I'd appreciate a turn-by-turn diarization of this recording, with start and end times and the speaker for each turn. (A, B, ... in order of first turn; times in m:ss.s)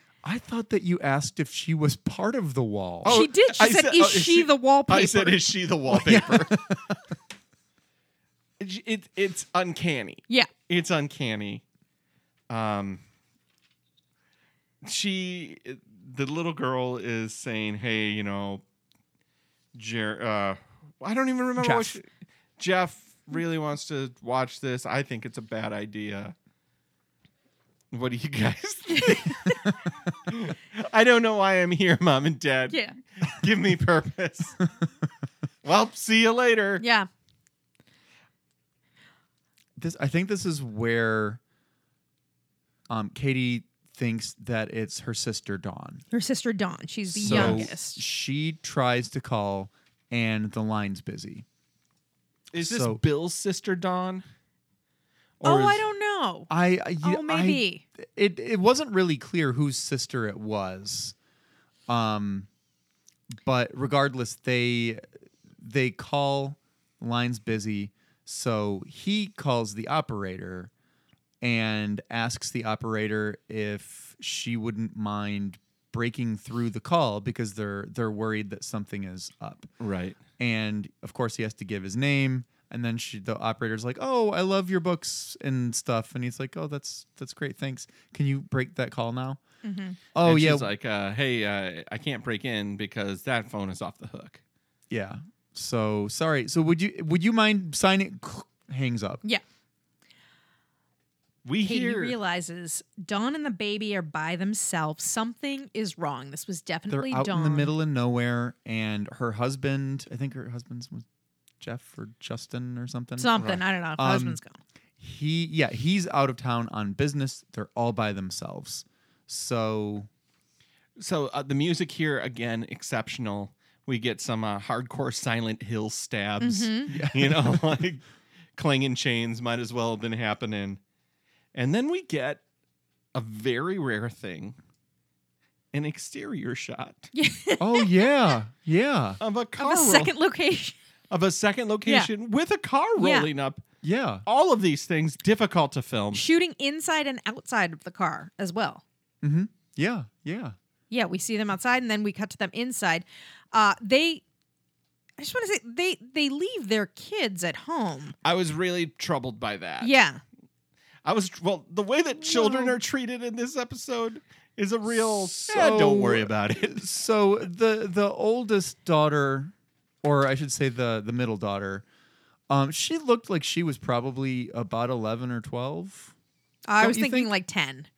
0:00.2-0:03.2 A
0:03.0-0:06.6 B
0:03.0-0:05.5 C
0:05.9-0:07.0 A
0:08.6-0:11.6 B
0:12.5-0:13.0 B
0:14.8-0:18.6 B
0:19.8-0:22.1 B
0:21.6-0:22.0 A
0:22.6-0:26.4 B
0:27.9-0:29.6 B
0:30.3-0:34.6 B
0:35.6-0:36.8 B
0:36.8-0:37.1 C
0:39.8-0:41.4 A
0:42.9-0:46.0 A
0:46.1-0:48.0 C
0:47.1-0:51.5 A
0:47.2-0:47.7 B
0:52.5-0:54.2 B
0:52.6-0:53.0 A
0:55.4-0:55.8 B
0:55.4-0:56.5 C
0:56.5-1:01.2 A
0:57.0-0:57.8 C
1:01.9-1:02.5 A
1:03.3-1:05.0 A
1:05.6-1:10.7 A
1:11.4-1:19.7 A
1:19.8-1:20.2 B
1:20.4-1:29.4 A
1:29.6-1:30.0 C
1:30.1-1:30.7 A
1:30.2-1:34.4 B
1:34.9-1:39.2 A
1:41.4-1:42.2 B
1:41.6-1:47.7 C
1:46.9-1:51.1 A
1:51.6-1:53.4 A
1:53.2-1:54.6 C
1:53.4-1:53.6 B
1:54.0-1:54.4 A
1:55.0-2:00.1 A
2:01.0-2:08.0 B
2:06.4-2:06.9 C
2:06.9-2:07.8 A
2:08.6-2:10.8 B
2:11.5-2:12.4 B
2:13.1-2:14.6 B
2:15.7-2:17.1 B
2:17.1-2:17.9 C
2:17.6-2:19.2 A
2:19.2-2:20.1 B
2:19.6-2:20.8 C
2:21.1-2:23.6 B
2:23.0-2:23.3 C
2:23.8-2:24.2 A
2:24.3-2:26.2 B
2:26.1-2:28.8 C
2:29.2-2:30.6 A
2:30.9-2:34.2 C
2:35.2-2:38.2 C
2:38.2-2:40.0 B
2:39.8-2:40.2 C
2:41.0-2:47.0 B
2:42.4-2:42.7 C
2:45.2-2:51.8 A
2:52.5-2:56.1 A
2:56.7-2:57.9 C
2:56.8-2:57.3 A